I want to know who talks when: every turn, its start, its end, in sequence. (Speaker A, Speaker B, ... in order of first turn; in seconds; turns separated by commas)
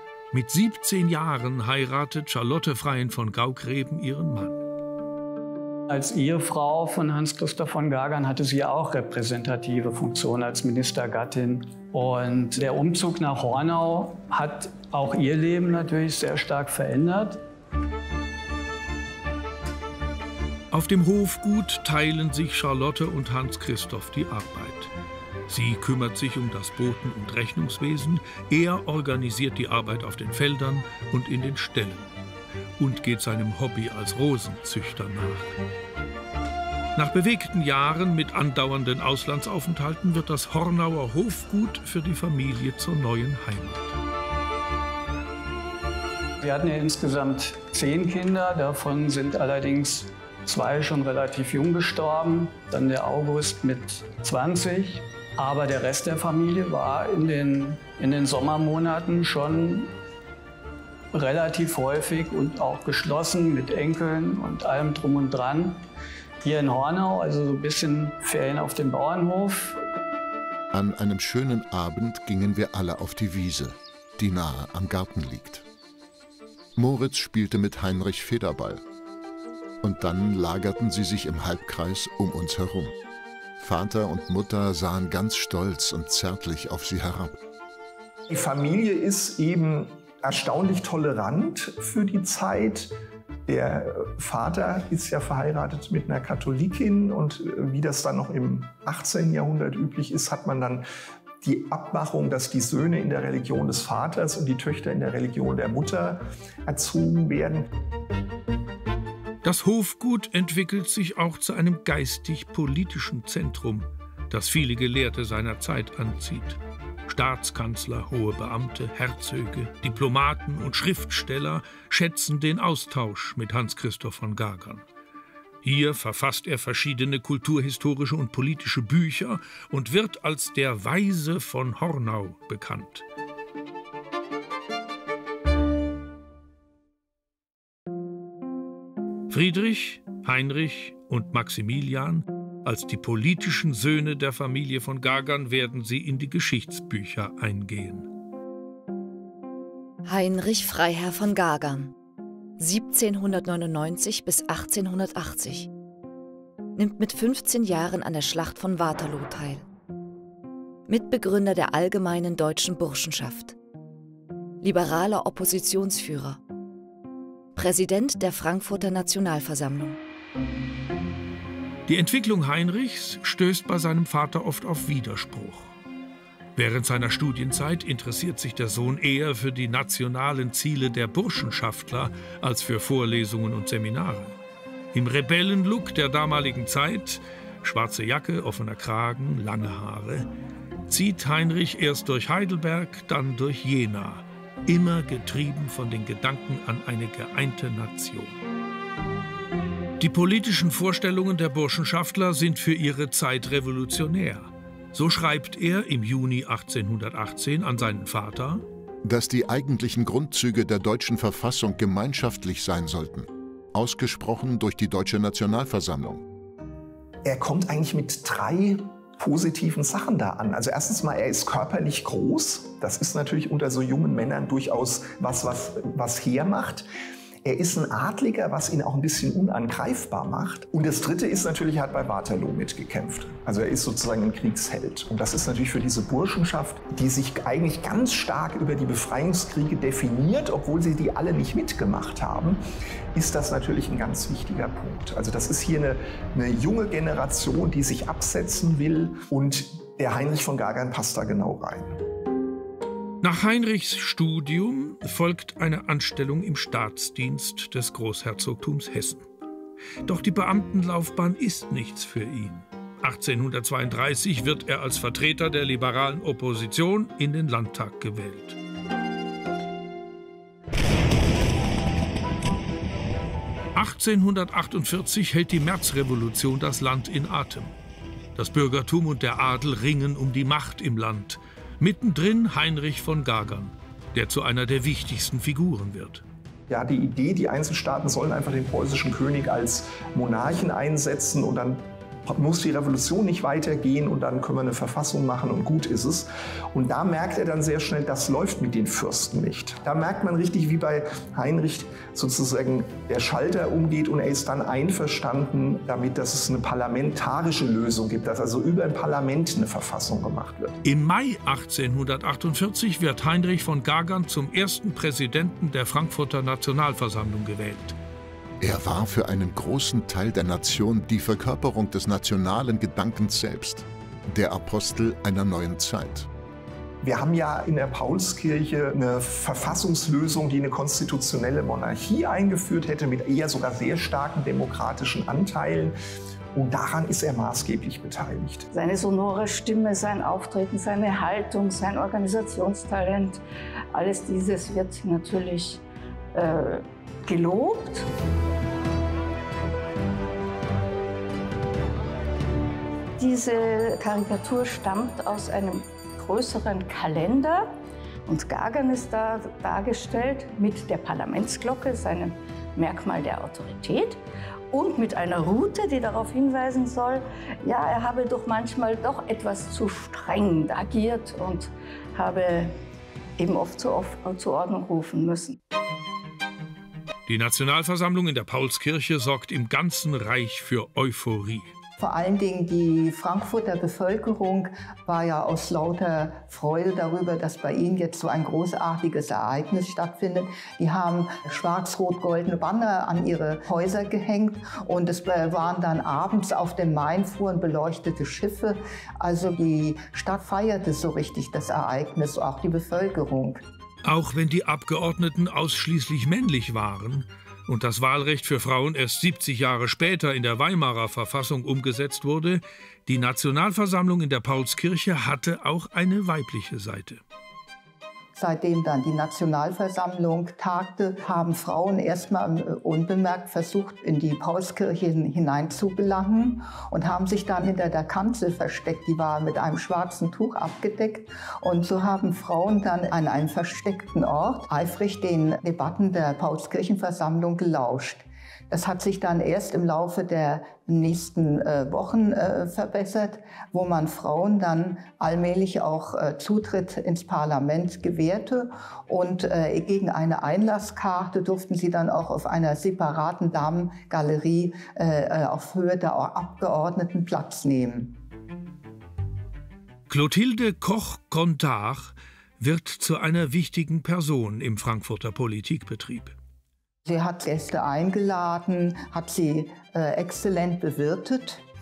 Speaker A: 0.3-4.6, Speaker B: 5.9-17.4, Speaker A: 20.7-24.9, Speaker A: 25.5-32.1, Speaker A: 32.8-35.5, Speaker A: 37.0-44.0, Speaker B: 46.4-59.9, Speaker B: 61.1-65.8, Speaker B: 66.4-69.8, Speaker C: 70.7-75.6, Speaker C: 76.8-78.8, Speaker C: 79.8-82.9, Speaker C: 83.6-87.3, Speaker D: 88.3-92.9, Speaker D: 93.5-100.8, Speaker D: 101.4-107.7, Speaker A: 109.4-124.8, Speaker A: 125.6-133.0, Speaker A: 139.3-148.1, Speaker E: 150.1-151.9, Speaker E: 152.6-155.7, Speaker E: 156.8-159.6, Speaker E: 160.9-163.5, Speaker E: 164.6-166.4, Speaker E: 167.6-170.0, Speaker A: 171.8-175.7, Speaker A: 176.6-184.4, Speaker A: 184.9-190.3, Speaker A: 190.9-198.4, Speaker A: 200.0-208.6, Speaker C: 209.0-216.2, Speaker D: 217.2-226.8, Speaker D: 227.4-242.6, Speaker D: 243.1-252.0, Speaker A: 253.2-259.2, Speaker A: 260.1-268.6, Speaker A: 273.7-277.7, Speaker A: 278.3-286.2, Speaker D: 286.7-310.7, Speaker A: 310.8-317.9, Speaker C: 318.6-326.3, Speaker D: 327.0-335.9, Speaker D: 336.5-338.6, Speaker F: 338.7-348.1, Speaker F: 353.2-357.7, Speaker F: 358.2-372.8, Speaker F: 373.4-375.6, Speaker A: 377.3-381.7, Speaker G: 382.0-403.6, Speaker A: 404.0-417.2, Speaker G: 418.3-458.1, Speaker A: 460.1-466.4, Speaker G: 467.1-471.6